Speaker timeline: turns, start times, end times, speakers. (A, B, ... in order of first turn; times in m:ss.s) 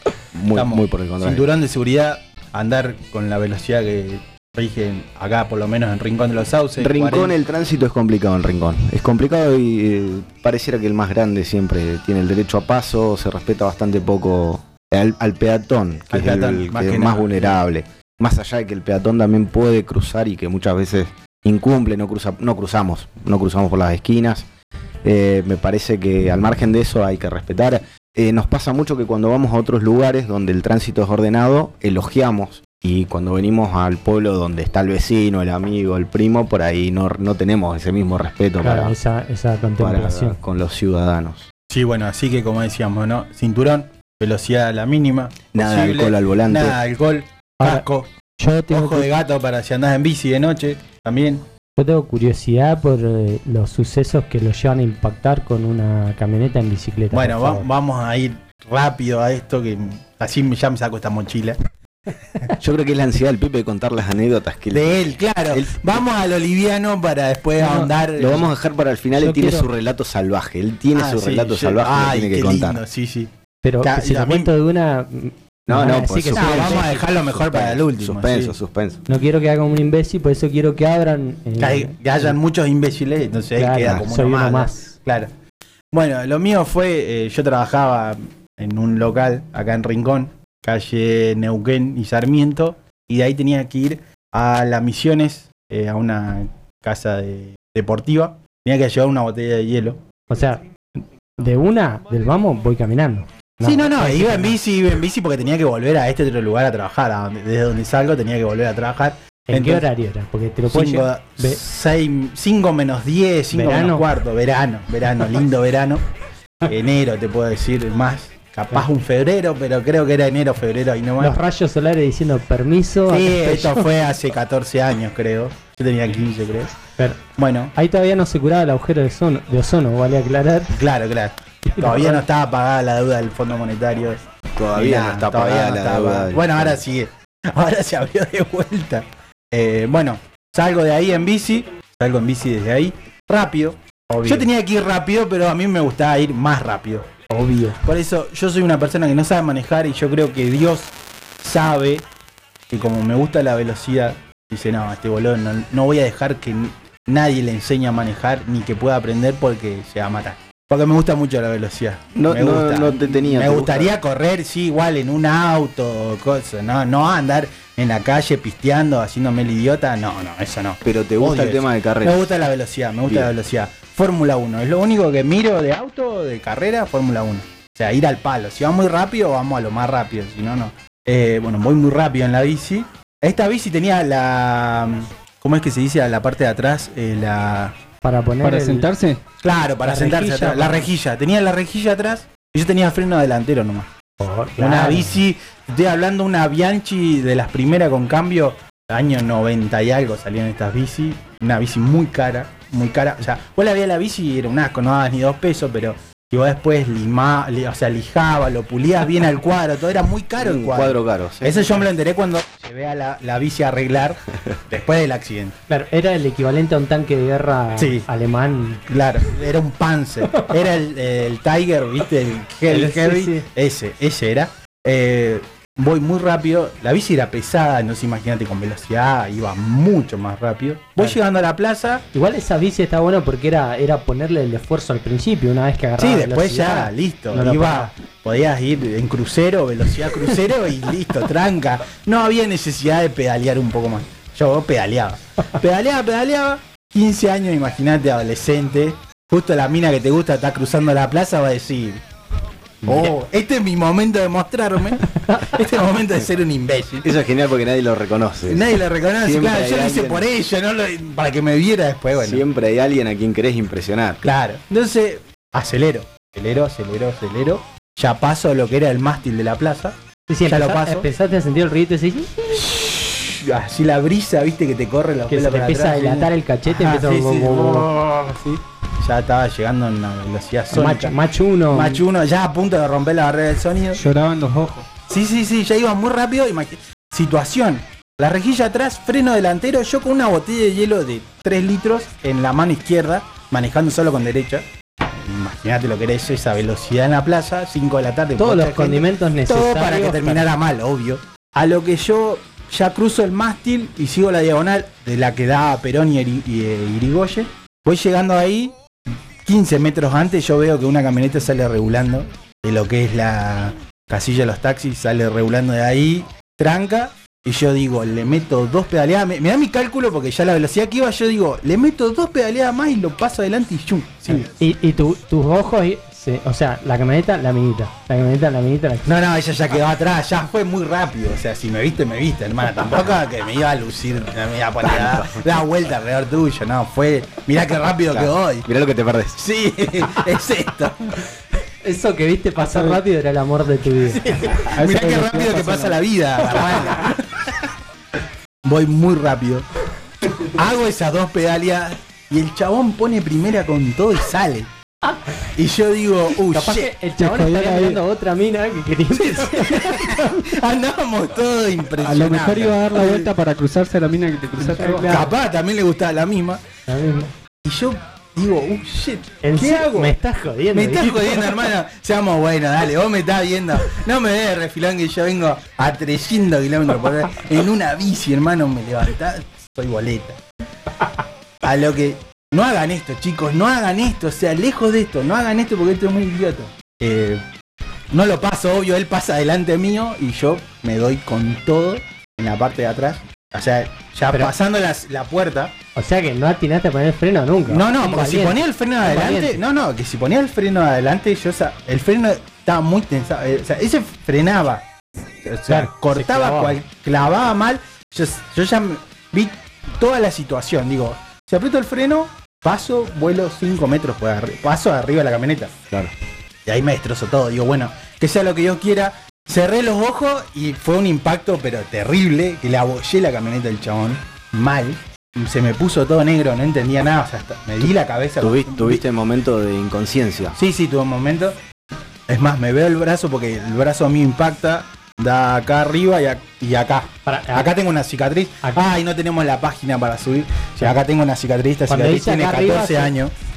0:00.3-0:01.5 A
0:00.5-0:07.4 B
0:06.8-0:24.4 A
0:16.1-0:17.6 B
0:25.0-0:38.9 A
0:38.6-0:40.4 C
0:39.8-0:41.5 A
0:41.7-0:48.1 B
0:45.5-0:46.8 A
0:47.6-0:47.8 C
0:48.4-0:49.1 C
0:48.7-0:51.4 B
0:51.8-0:57.7 C
0:57.1-1:01.6 B
1:02.6-1:05.9 A
1:04.7-1:08.5 B
1:07.6-1:07.9 C
1:08.2-1:12.8 A
1:09.2-1:09.7 C
1:10.9-1:13.3 B
1:13.6-1:16.9 C
1:13.8-1:14.5 B
1:15.7-1:19.0 A
1:16.3-1:18.5 B
1:19.1-1:22.3 C
1:21.6-1:25.3 B
1:23.6-1:24.9 C
1:25.9-1:40.0 B
1:40.3-1:40.6 C
1:41.4-1:44.6 C
1:43.6-1:49.9 B
1:49.5-1:51.6 C
1:50.7-1:56.0 B
1:53.5-1:54.1 C
1:56.6-2:01.4 B
2:01.2-2:03.9 C
2:03.1-2:06.7 B
2:07.4-2:07.7 B
2:07.7-2:10.8 C
2:10.8-2:32.0 B
2:11.8-2:12.2 C
2:14.6-2:16.8 A
2:27.3-2:27.8 C
2:32.7-3:07.8 B
2:42.1-2:43.9 A
2:50.8-2:52.3 A
3:08.0-3:08.9 C
3:08.4-3:09.2 D
3:09.4-3:13.9 B
3:09.8-3:10.9 C
3:14.2-3:15.2 C
3:14.6-3:35.6 B
3:30.4-3:31.9 A
3:35.7-3:38.8 C
3:37.8-3:38.1 B
3:38.9-3:52.0 B
3:42.7-3:43.4 C
3:52.1-3:57.9 C
3:56.0-4:12.0 B
4:12.8-4:17.1 B
4:12.9-4:13.1 A
4:15.2-4:15.6 C
4:17.0-4:20.2 A
4:18.5-4:22.4 B
4:22.2-4:24.2 A
4:24.2-4:31.1 B
4:30.3-4:32.6 C
4:32.5-4:38.1 B
4:35.3-4:37.9 C
4:38.1-4:38.6 D
4:39.0-4:41.2 B
4:40.7-4:42.0 C
4:41.7-4:44.0 B
4:43.9-4:44.9 D
4:45.1-5:08.7 B
4:58.4-5:00.5 C
5:09.4-5:24.5 B
5:24.3-5:29.2 C
5:29.0-5:38.6 B
5:34.8-5:35.5 A
5:38.1-5:39.4 A
5:39.4-5:41.2 B
5:41.8-5:45.9 C
5:44.3-5:47.7 B
5:44.7-5:45.9 D
5:46.5-5:46.8 C
5:48.6-5:49.7 B
5:50.4-5:54.7 B
5:55.5-5:56.9 B
5:56.5-6:00.5 C
5:57.2-5:58.0 D
5:59.1-6:03.3 B
6:02.0-6:05.3 D
6:04.6-6:05.3 C
6:05.0-6:06.6 B
6:06.9-6:07.3 C
6:07.6-6:10.2 B
6:09.4-6:11.6 C
6:10.7-6:20.4 B
6:21.6-6:27.4 B
6:28.1-6:35.8 B
6:35.9-6:39.6 C
6:37.7-6:44.8 B
6:45.4-6:55.7 B
6:45.7-6:46.8 C
6:56.6-7:09.0 B
7:08.4-7:10.6 A
7:10.5-7:11.6 B
7:12.3-7:23.3 B
7:17.2-7:17.7 C
7:18.6-7:18.9 C
7:21.9-7:23.1 C